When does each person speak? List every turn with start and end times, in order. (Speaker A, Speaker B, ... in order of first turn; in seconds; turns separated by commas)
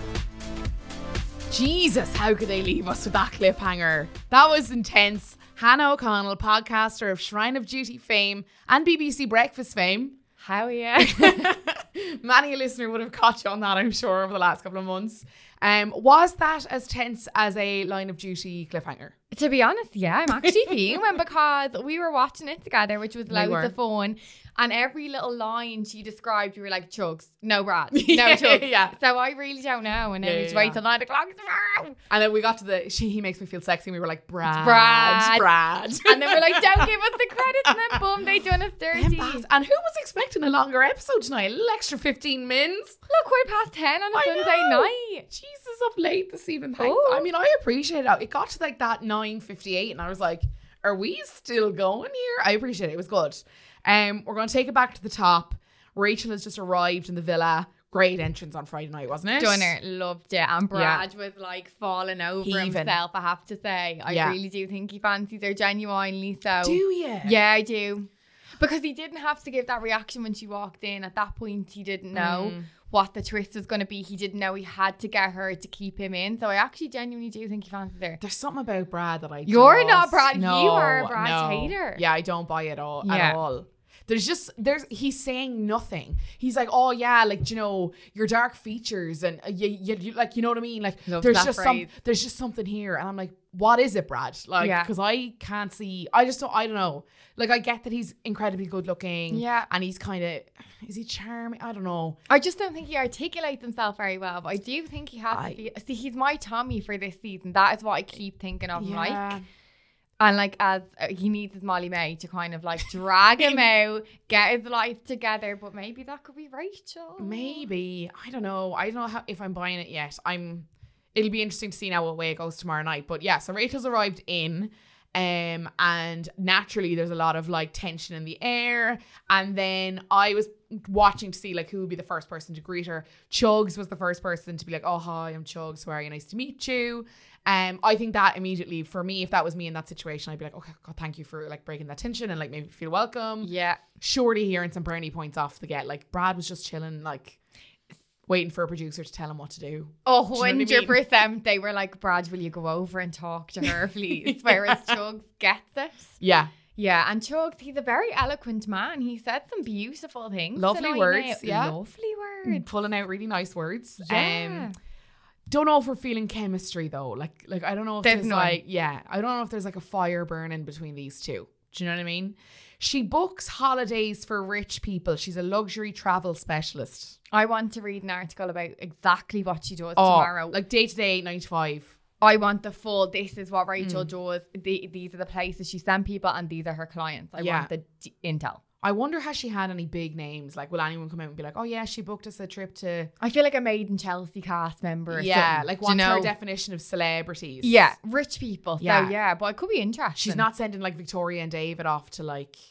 Speaker A: 1.5-10.2, Speaker B: 10.4-11.5, Speaker A: 11.0-19.1, Speaker B: 19.3-32.0, Speaker A: 20.3-21.0, Speaker A: 23.3-23.7, Speaker A: 27.9-28.9, Speaker A: 30.2-30.8, Speaker A: 32.1-36.9, Speaker B: 34.5-35.5, Speaker B: 36.0-39.5, Speaker A: 37.7-38.0, Speaker A: 38.9-43.0, Speaker B: 43.1-45.3, Speaker A: 44.1-59.7, Speaker B: 46.8-47.3, Speaker B: 59.4-78.2, Speaker A: 60.7-61.0, Speaker A: 62.4-63.0, Speaker A: 64.1-64.4, Speaker A: 66.6-67.4, Speaker A: 72.1-72.7, Speaker A: 78.2-102.2, Speaker B: 79.5-82.0, Speaker B: 83.0-83.4, Speaker B: 91.1-91.9, Speaker B: 94.6-94.9, Speaker B: 99.3-99.7, Speaker B: 102.3-109.4, Speaker A: 105.3-105.6, Speaker A: 108.8-109.4, Speaker B: 110.2-117.7, Speaker A: 117.2-147.4, Speaker B: 143.4-143.8, Speaker A: 148.3-151.0, Speaker B: 150.1-156.2, Speaker A: 154.2-154.9, Speaker A: 156.2-156.5, Speaker B: 156.8-162.7, Speaker A: 160.6-161.8, Speaker A: 162.4-164.7, Speaker B: 164.0-164.8, Speaker A: 165.5-177.2, Speaker B: 168.0-168.6, Speaker B: 177.3-180.6, Speaker A: 180.0-182.0, Speaker B: 182.2-188.6, Speaker A: 183.8-184.1, Speaker A: 187.4-187.7, Speaker A: 188.8-193.1, Speaker B: 193.2-196.3, Speaker A: 195.1-197.8, Speaker B: 197.6-200.5, Speaker A: 198.8-199.1, Speaker A: 200.2-202.6